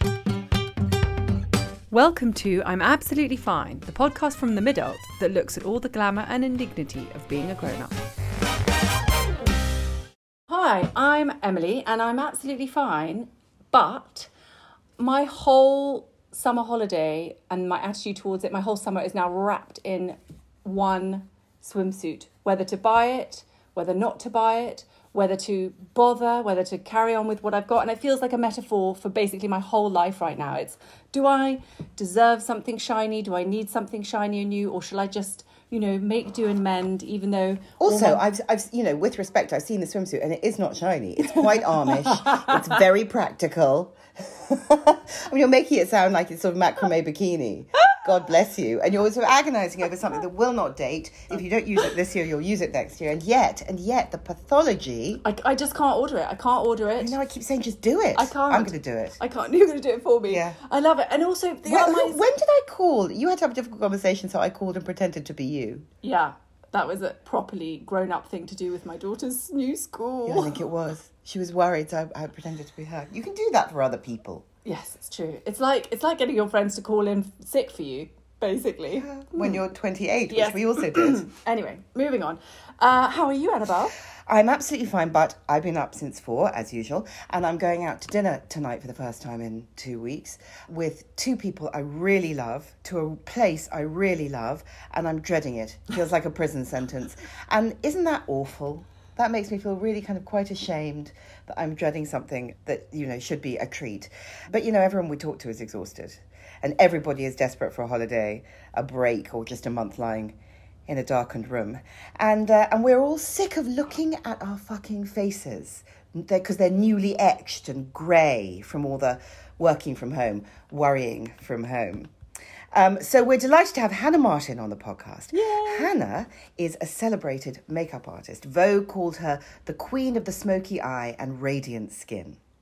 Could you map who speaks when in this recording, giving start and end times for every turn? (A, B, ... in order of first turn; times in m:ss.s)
0:01.9-0:08.0 A
0:10.5-0:14.3 A
0:15.0-0:38.2 A
0:37.8-0:55.2 B
0:55.2-0:57.1 A
0:57.0-0:59.2 B
0:58.2-1:02.2 A
1:00.3-1:00.6 B
1:01.6-1:05.9 B
1:06.0-1:10.6 A
1:10.2-1:14.4 B
1:14.6-1:19.6 A
1:19.0-1:21.2 B
1:20.3-1:24.0 A
1:24.3-1:50.4 B
1:50.9-2:02.1 B
2:02.7-2:12.4 B
2:05.3-2:05.9 A